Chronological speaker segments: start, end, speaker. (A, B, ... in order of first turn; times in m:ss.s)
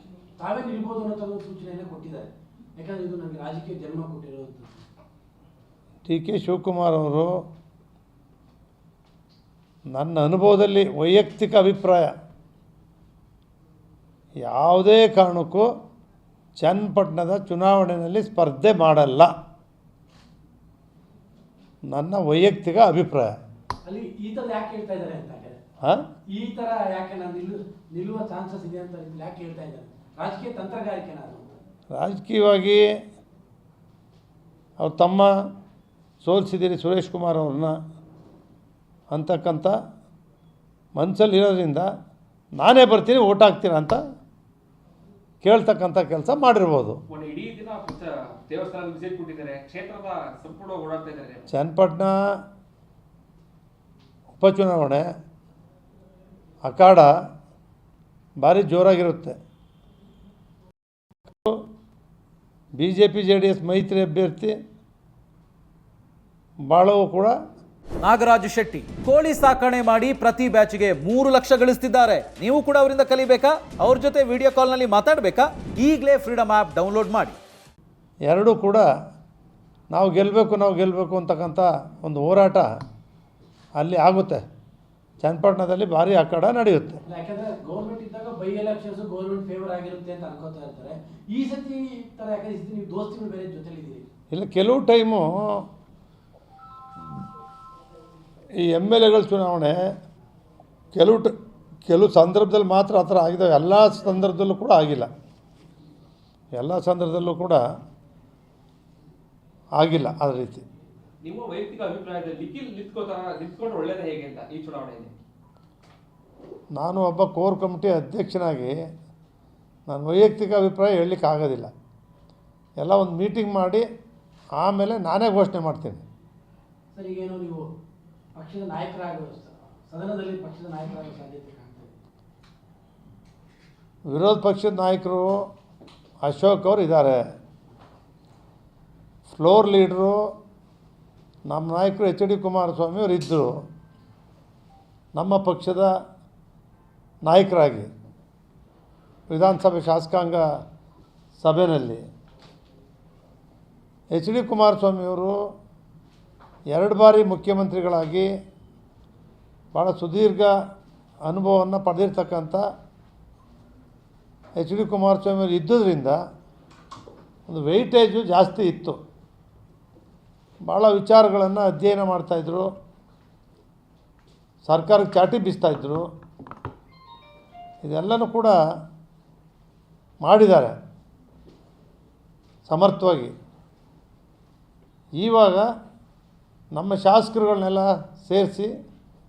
0:00.4-0:04.8 A
0:06.1-0:07.3 B
0:09.9-0:12.1 B
0:14.4-0:15.7 B
0:16.6-0:19.3 B
0:21.9-0:23.3 B
0:23.8-0:25.6 A
0:26.3-0:31.6 A
0:31.9-0:32.8 B
0:34.8-0:35.3 B
0:36.2-0:37.8 B
0:39.1-0:39.7 B
0:41.0-0:41.9 B
0:42.6-0:44.0 B
0:45.4-0:47.0 B
0:47.1-0:51.4 C
0:51.5-0:52.2 B
0:54.4-0:55.0 B
0:56.6-0:57.1 B
0:58.4-0:59.3 B
1:02.8-1:04.6 B
1:06.7-1:07.3 B
1:08.0-1:17.4 D
1:18.3-1:18.9 B
1:19.9-1:22.7 B
1:23.8-1:24.4 B
1:25.2-1:27.0 B
1:27.0-1:34.1 A
1:34.3-1:35.6 B
1:38.6-1:39.8 B
1:40.9-1:41.3 B
1:41.9-1:45.1 B
1:46.6-1:47.6 B
1:49.8-1:50.6 B
1:51.2-1:55.1 C
1:56.8-1:58.7 B
1:59.9-2:01.7 B
2:02.8-2:03.8 B
2:04.6-2:06.0 B
2:06.9-2:07.7 A
2:08.3-2:11.9 A
2:14.1-2:15.3 B
2:16.2-2:17.2 B
2:19.3-2:20.2 B
2:21.5-2:23.5 B
2:25.2-2:25.9 B
2:27.2-2:27.9 B
2:29.3-2:30.4 B
2:31.4-2:32.0 B
2:34.1-2:35.3 B
2:36.7-2:38.3 B
2:39.7-2:40.5 B
2:41.2-2:42.6 B
2:44.6-2:46.2 B
2:47.5-2:49.0 B
2:50.7-2:52.7 B
2:54.6-2:56.0 B
2:57.8-2:58.6 B
3:00.2-3:00.8 B
3:02.7-3:03.3 B
3:05.2-3:05.6 B
3:06.7-3:08.7 B